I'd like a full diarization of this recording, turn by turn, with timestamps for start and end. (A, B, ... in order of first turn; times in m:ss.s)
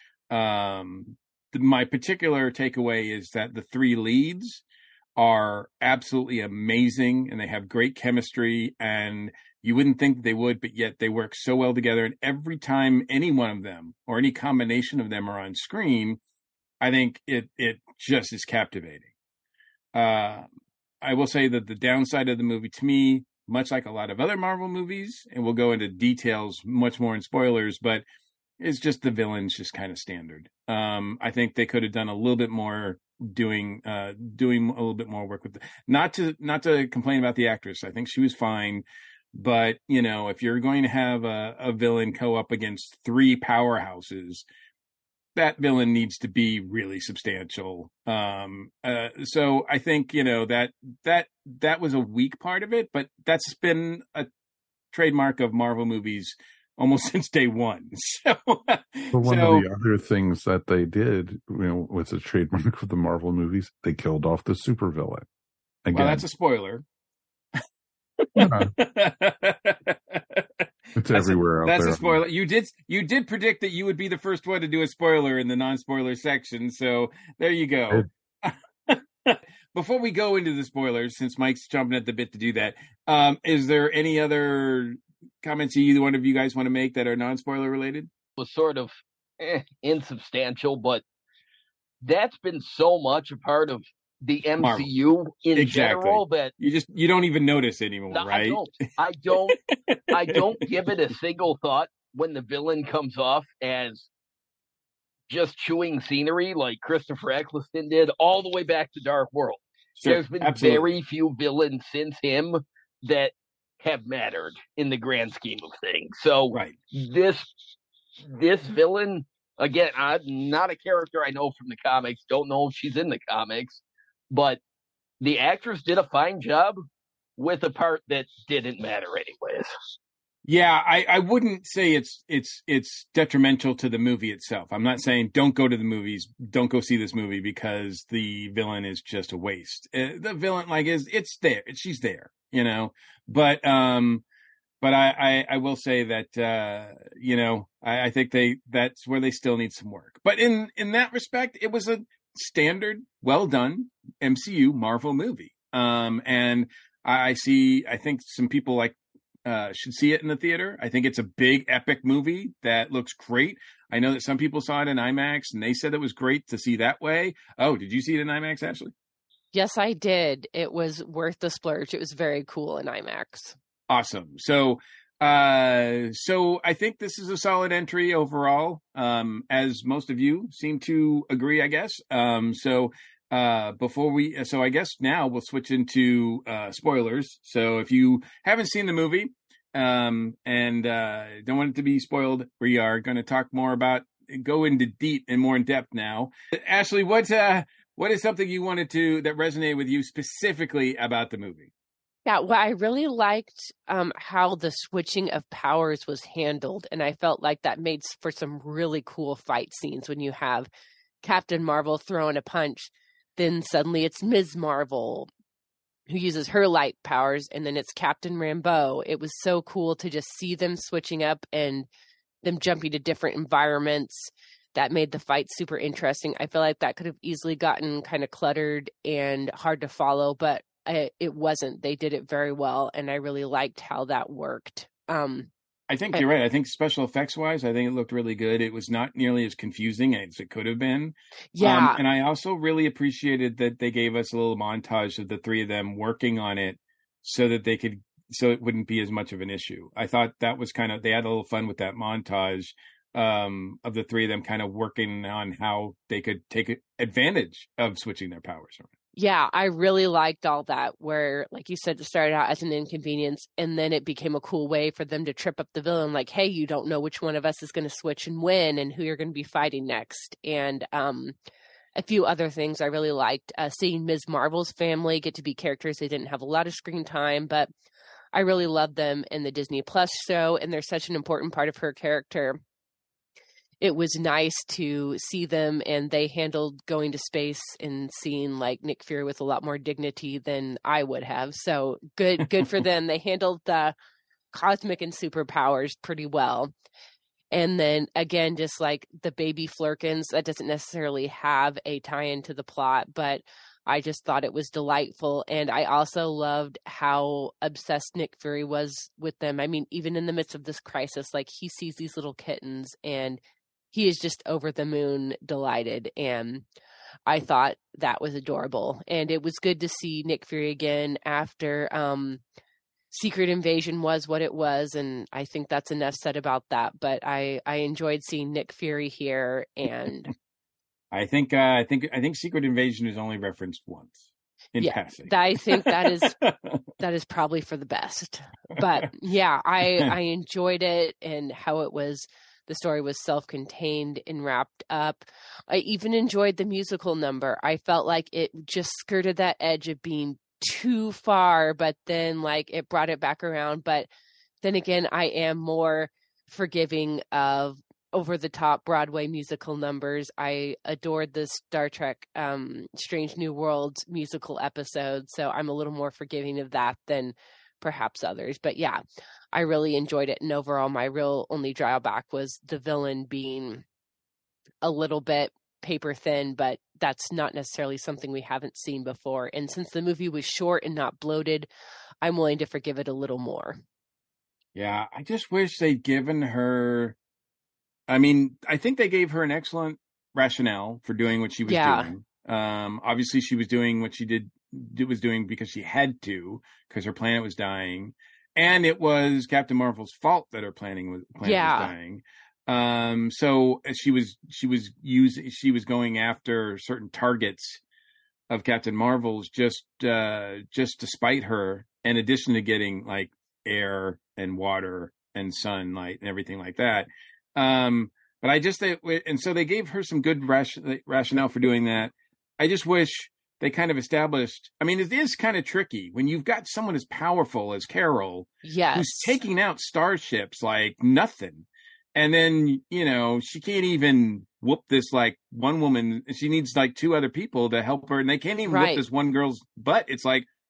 0:00.3-0:04.6 A
0:05.2-0:16.2 A
0:16.8-0:19.1 A
0:19.9-0:20.5 A
0:21.0-0:28.0 A
0:28.6-0:44.4 A
0:45.4-0:54.3 A
0:54.9-0:59.6 A
0:59.1-1:05.2 B
1:05.8-1:06.2 B
1:05.9-1:06.8 A
1:08.2-1:28.1 A
1:08.4-1:08.7 B
1:11.0-1:12.2 B
1:28.4-1:31.0 C
1:32.0-1:36.5 C
1:34.6-1:34.9 A
1:35.5-1:38.6 A
1:38.1-1:39.6 C
1:39.5-1:40.5 A
1:40.1-1:44.1 C
1:45.3-1:57.5 C
1:50.0-1:50.9 A
1:58.3-2:04.6 C
2:05.2-2:06.8 C
2:07.4-2:09.7 C
2:10.4-2:24.2 A
2:24.8-2:48.9 A
2:49.5-2:53.6 D
2:53.9-3:21.7 A
3:22.2-3:30.7 D
3:31.2-3:35.3 D
3:36.1-3:41.9 D
3:42.4-3:55.5 D
3:55.9-4:18.9 A
4:01.5-4:02.0 D
4:19.2-4:31.3 D
4:32.0-4:37.7 D
4:38.3-4:42.6 D
4:43.8-4:53.9 D
4:54.5-4:56.7 D
4:57.5-5:16.6 D
5:17.3-5:22.4 D
5:23.1-5:30.3 D
5:31.1-5:36.8 A
5:34.8-5:36.3 D
5:37.0-5:54.1 D
5:39.8-5:40.1 A
5:54.6-6:09.0 D
6:09.5-6:13.8 D
6:14.8-6:21.7 D
6:22.2-6:23.8 D
6:24.7-6:27.2 A
6:28.1-6:47.8 A
6:31.6-6:32.1 D
6:41.4-6:41.9 D
6:48.5-7:20.5 A
7:08.6-7:09.4 D
7:18.7-7:19.0 D